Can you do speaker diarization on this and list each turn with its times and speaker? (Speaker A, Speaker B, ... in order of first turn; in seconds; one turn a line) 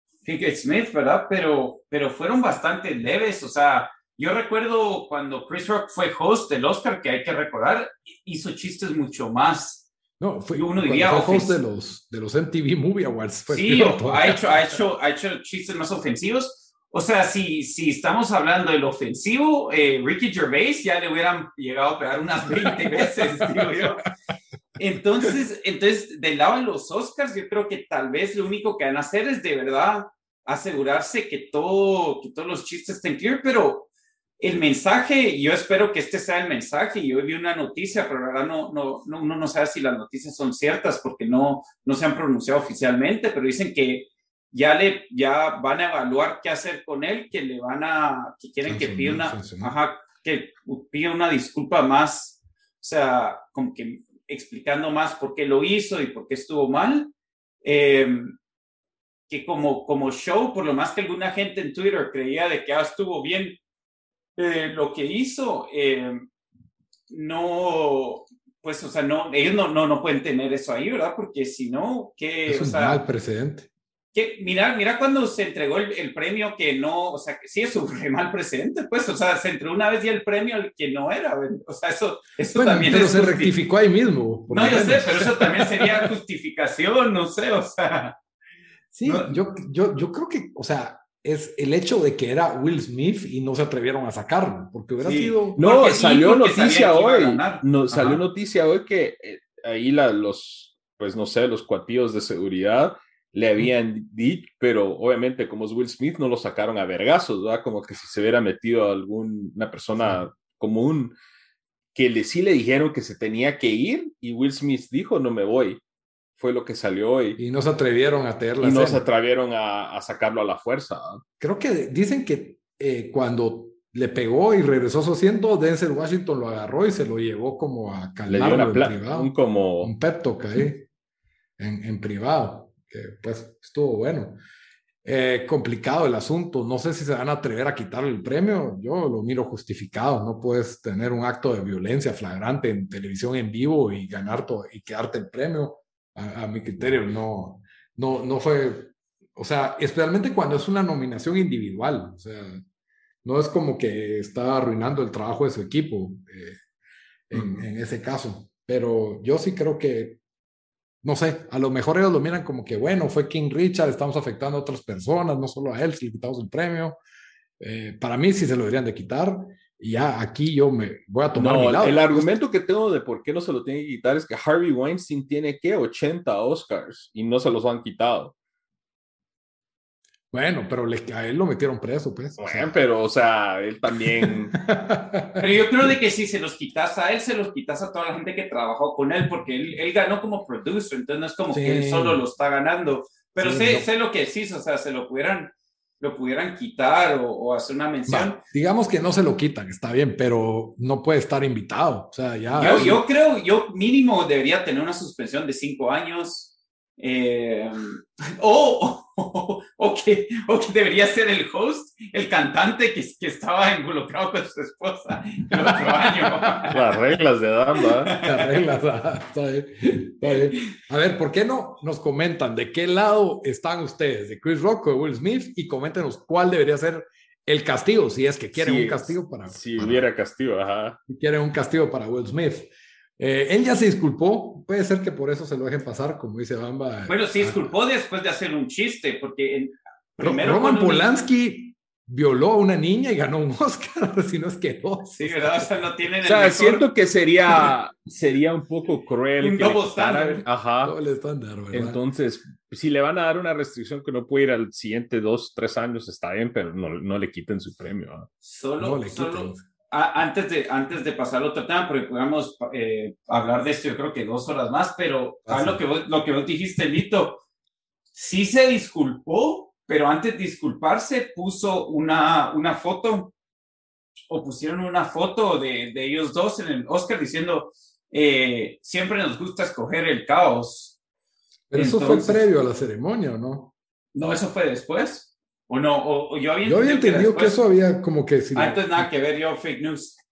Speaker A: 0.2-9.9
Speaker B: 10.2-14.4
Speaker A: 10.5-11.6
Speaker A: 13.5-24.0
Speaker B: 22.5-23.8
Speaker A: 24.8-57.1
Speaker B: 48.6-49.7
Speaker A: 57.6-58.4
Speaker A: 59.3-63.6
Speaker A: 64.3-66.2
Speaker A: 67.1-73.0
Speaker B: 72.5-73.7
Speaker A: 74.1-83.5
Speaker B: 82.5-86.1
Speaker A: 84.5-88.1
Speaker B: 88.9-95.6
Speaker A: 89.0-89.4
Speaker A: 95.0-98.2
Speaker C: 95.5-111.1
Speaker B: 110.0-110.2
Speaker C: 111.9-115.8
Speaker C: 116.4-117.4
Speaker B: 117.4-119.0
Speaker C: 118.6-121.2
Speaker B: 121.4-130.9
Speaker C: 128.3-129.9
Speaker B: 131.6-134.4
Speaker B: 135.0-152.6
Speaker B: 153.2-156.6
Speaker B: 157.3-160.2
Speaker B: 161.0-167.0
Speaker B: 167.6-172.4
Speaker C: 171.3-178.3
Speaker B: 180.3-182.8
Speaker C: 182.4-184.6
Speaker B: 184.2-185.5
Speaker A: 185.4-198.4
Speaker B: 191.5-192.2
Speaker B: 193.4-193.9
Speaker B: 198.1-203.0
Speaker A: 202.5-216.8
Speaker B: 215.7-216.8
Speaker C: 216.7-218.1
Speaker A: 218.1-218.5
Speaker B: 218.2-230.1
Speaker A: 220.2-220.6
Speaker C: 228.5-231.0
Speaker B: 231.1-237.7
Speaker A: 237.1-241.1
Speaker B: 240.2-245.7
Speaker A: 245.1-246.8
Speaker C: 246.2-250.9
Speaker A: 249.4-250.4
Speaker B: 250.8-252.0
Speaker C: 251.7-258.3
Speaker A: 258.4-267.4
Speaker B: 258.8-259.6
Speaker B: 265.4-265.8
Speaker A: 268.1-273.3
Speaker A: 274.3-280.9
Speaker B: 281.7-283.7
Speaker A: 281.7-282.5
Speaker A: 284.1-287.6
Speaker B: 286.6-289.1
Speaker A: 288.5-290.2